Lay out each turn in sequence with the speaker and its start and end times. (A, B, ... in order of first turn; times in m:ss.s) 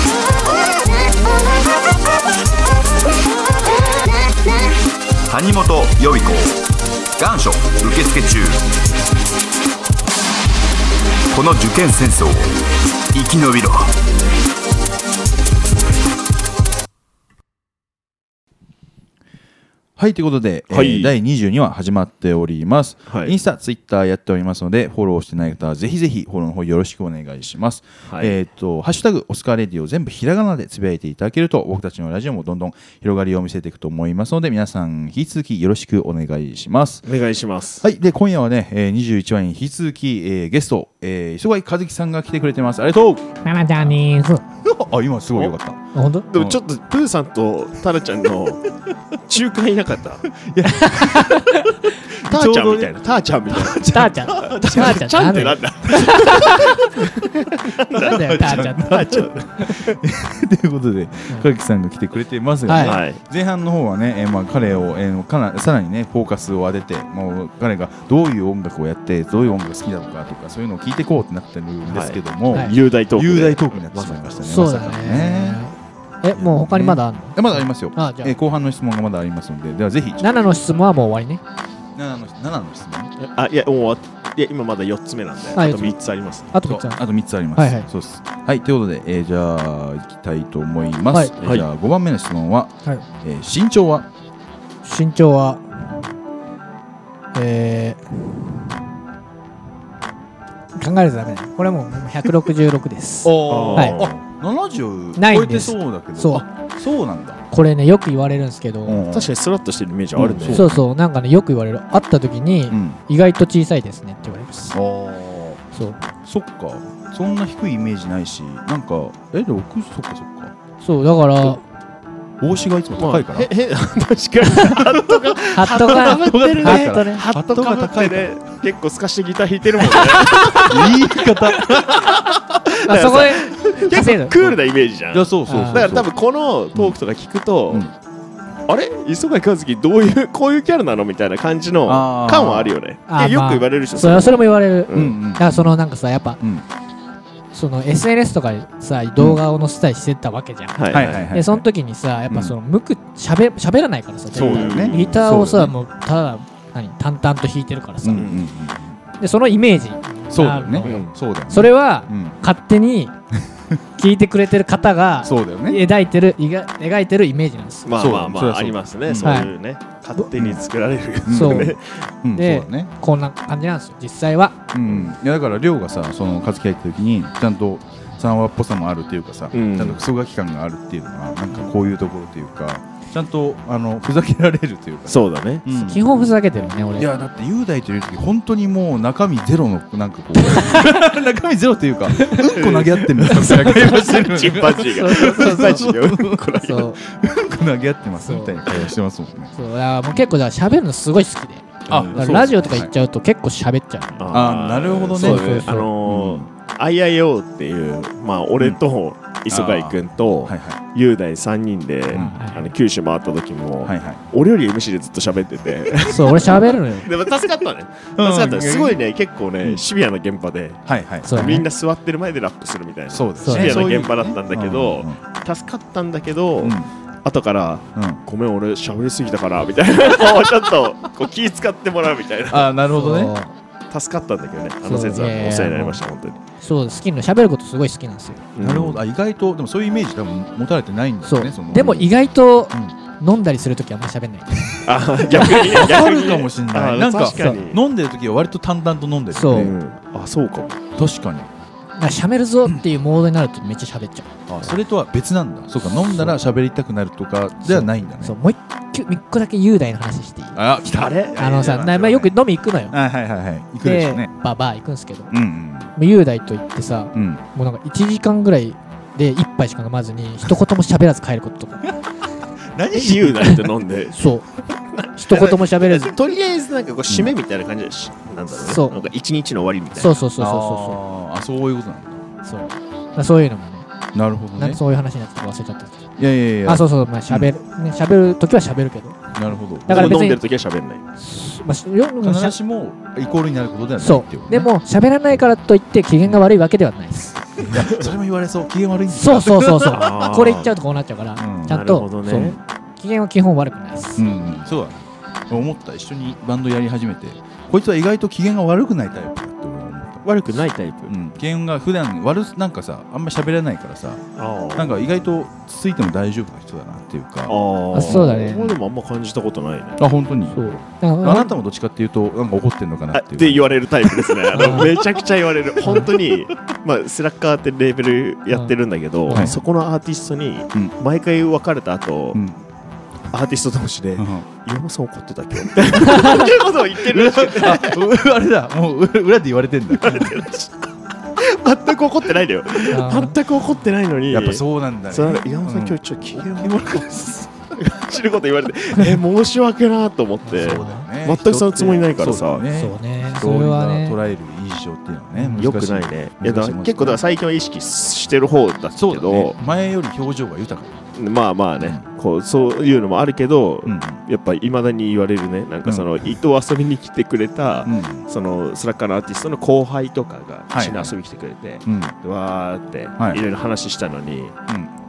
0:05.3-0:06.6 A
0:07.2-0:08.6 A
0:11.3-0:12.6 A
0:13.1-0:14.0 A
0:20.0-0:37.1 B
0:20.7-0:21.1 C
0:23.1-0:23.3 C
0:28.1-0:28.4 C
0:37.0-0:37.8 C
0:37.8-0:43.9 B
0:43.4-0:44.4 D
0:44.6-0:45.8 B
0:45.9-0:46.3 D
0:46.3-0:48.7 C
0:46.4-0:46.6 B
0:49.3-0:50.3 C
0:50.4-0:52.9 B
0:50.7-0:51.7 D
0:52.2-1:00.0 C
0:53.5-0:56.8 B
0:53.9-0:56.5 D
0:57.9-1:15.6 B
0:58.0-0:59.1 D
1:02.7-1:03.0 D
1:02.8-1:03.2 C
1:11.8-1:14.8 C
1:14.4-1:18.4 D
1:16.4-1:20.2 B
1:20.2-1:21.4 D
1:22.0-1:23.1 B
1:23.2-1:26.5 C
1:25.6-1:26.0 D
1:26.5-1:27.0 D
1:26.6-1:34.1 B
1:27.6-1:27.9 D
1:31.4-1:31.7 C
1:34.8-1:35.6 D
1:37.3-1:38.6 D
1:40.8-1:44.0 D
1:43.2-1:47.4 B
1:43.5-1:44.2 C
1:45.2-1:46.4 D
1:47.5-1:49.0 D
1:48.9-1:49.3 B
1:49.1-1:50.7 C
1:50.2-1:50.8 B
1:50.5-1:54.8 D
1:52.7-1:53.0 B
1:54.7-1:55.6 B
1:55.7-1:56.1 D
1:56.2-2:00.5 B
2:00.8-2:01.6 D
2:02.4-2:03.5 B
2:03.0-2:11.0 C
2:04.8-2:08.3 B
2:05.5-2:07.2 D
2:10.1-2:10.7 D
2:10.6-2:12.3 B
2:11.6-2:17.9 C
2:12.8-2:14.4 D
2:15.1-2:16.1 B
2:15.5-2:15.9 D
2:18.7-2:25.2 C
2:21.9-2:22.8 B
2:23.1-2:26.4 D
2:24.9-2:25.8 B
2:27.5-2:38.3 D
2:30.8-2:31.3 C
2:30.9-2:31.7 B
2:32.3-2:32.6 B
2:34.3-2:35.2 C
2:34.3-2:35.8 B
2:38.0-2:39.0 B
2:38.1-2:38.4 C
2:39.2-2:43.1 D
2:40.3-2:42.4 B
2:40.8-2:41.1 C
2:44.0-2:47.9 D
2:45.2-2:45.8 B
2:47.8-2:52.1 C
2:48.0-2:49.5 B
2:49.2-2:49.5 D
2:50.4-2:50.6 B
2:51.2-2:52.9 B
2:51.3-2:51.8 D
2:52.3-2:54.6 D
2:54.7-3:06.0 B
2:59.5-3:00.0 C
3:05.1-3:05.6 C
3:05.7-3:07.1 D
3:07.0-3:19.6 B
3:10.5-3:10.8 D
3:12.2-3:12.5 D
3:12.5-3:16.9 C
3:13.3-3:14.0 D
3:15.0-3:15.8 D
3:16.6-3:17.0 D
3:18.2-3:18.6 D
3:19.6-3:24.4 D
3:21.9-3:22.3 C
3:21.9-3:22.9 B
3:24.2-3:52.7 C
3:24.3-3:26.5 B
3:25.2-3:25.9 D
3:29.5-3:30.8 B
3:32.1-3:32.5 B
3:32.1-3:32.7 D
3:33.8-3:34.2 B
3:36.1-3:37.1 D
3:38.2-3:39.0 B
3:40.9-3:41.6 B
3:41.2-3:41.7 D
3:43.1-3:45.2 B
3:43.4-3:43.9 D
3:46.6-3:46.9 B
3:48.0-3:48.2 B
3:52.5-3:53.3 B
3:52.9-3:53.6 D
3:53.9-3:56.4 C
3:54.8-3:56.0 D
3:56.6-3:58.4 D
3:58.6-3:59.0 C
3:58.6-4:02.1 B
4:01.2-4:05.8 D
4:04.8-4:07.8 C
4:05.3-4:09.8 B
4:07.3-4:07.6 D
4:09.3-4:09.7 D
4:09.5-4:10.8 C
4:11.0-4:11.5 B
4:12.0-4:14.3 D
4:14.5-4:18.4 B
4:15.9-4:16.4 D
4:17.6-4:20.6 D
4:20.6-4:22.3 B
4:20.9-4:22.0 C
4:21.4-4:23.0 D
4:22.9-4:24.3 B
4:23.8-4:25.4 D
4:25.3-4:25.9 B
4:26.0-4:31.9 D
4:27.1-4:27.4 B
4:32.7-4:33.7 B
4:32.9-4:40.2 C
4:34.1-4:34.5 D
4:35.1-4:36.1 D
4:37.1-4:37.3 B
4:38.6-4:39.0 D
4:40.0-4:41.0 D
4:40.4-4:42.2 B
4:42.4-4:43.9 D
4:44.1-4:44.8 B
4:44.6-4:46.1 D
4:46.2-4:47.5 B
4:46.7-4:49.2 D
4:49.4-4:50.3 B
4:49.9-4:50.4 D
4:49.9-4:51.0 C
4:51.2-4:52.6 D
4:52.2-4:54.7 B
4:54.0-4:57.4 D
4:57.6-5:00.1 B
4:59.1-5:04.3 D
4:59.9-5:00.7 C
5:01.4-5:02.6 B
5:01.7-5:02.6 C
5:04.2-5:10.3 B
5:10.2-5:11.1 C
5:11.1-5:14.2 B
5:14.4-5:15.0 C
5:14.8-5:18.3 B
5:17.5-5:20.0 C
5:17.9-5:18.8 D
5:20.0-5:25.0 B
5:20.5-5:21.5 D
5:23.1-5:32.4 C
5:24.5-5:24.9 D
5:25.9-5:26.2 B
5:29.3-5:29.6 D
5:29.3-5:29.6 B
5:32.3-5:32.6 B
5:33.3-5:38.0 C
5:34.2-5:34.5 B
5:36.1-5:36.5 D
5:37.1-5:40.4 B
5:39.9-5:47.1 C
5:42.9-5:43.4 D
5:44.3-5:47.9 B
5:47.8-5:52.7 C
5:50.5-5:51.1 D
5:50.5-5:57.2 B
5:52.7-5:54.2 D
5:55.4-5:55.6 D
5:55.6-5:59.6 C
5:59.0-6:01.0 B
5:59.6-5:59.9 D
6:01.2-6:14.6 C
6:01.8-6:02.0 B
6:03.8-6:04.2 B
6:05.8-6:06.1 B
6:07.8-6:08.3 B
6:10.7-6:11.2 B
6:11.9-6:12.2 B